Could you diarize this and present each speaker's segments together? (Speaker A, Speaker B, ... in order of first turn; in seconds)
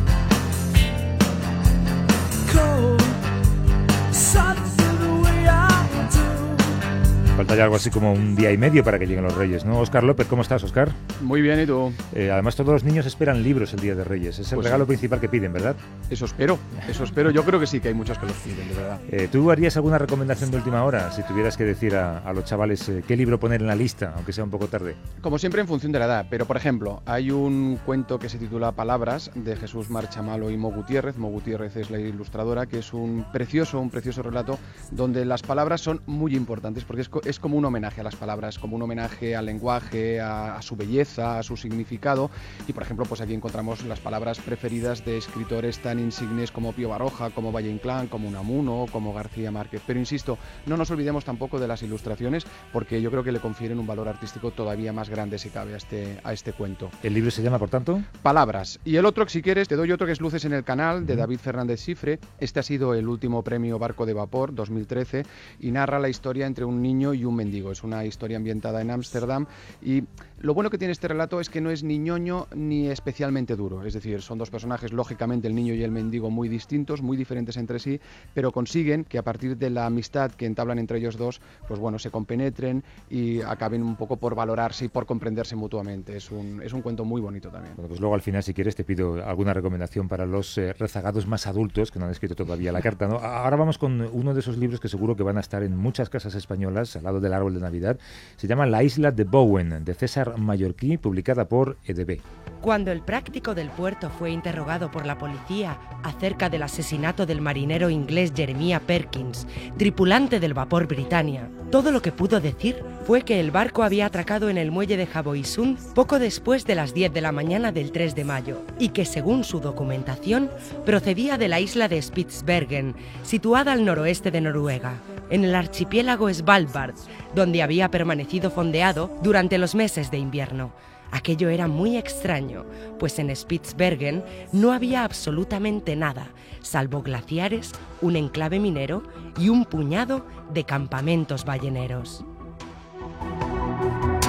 Speaker A: 4.6-5.8, 11.2-12.0, 14.5-14.8, 16.1-19.0, 25.2-56.9, 58.2-87.8
Speaker B: 7.3-11.0, 12.1-15.8, 19.1-25.0, 57.0-58.1, 87.8-102.2
Speaker C: 102.6-142.2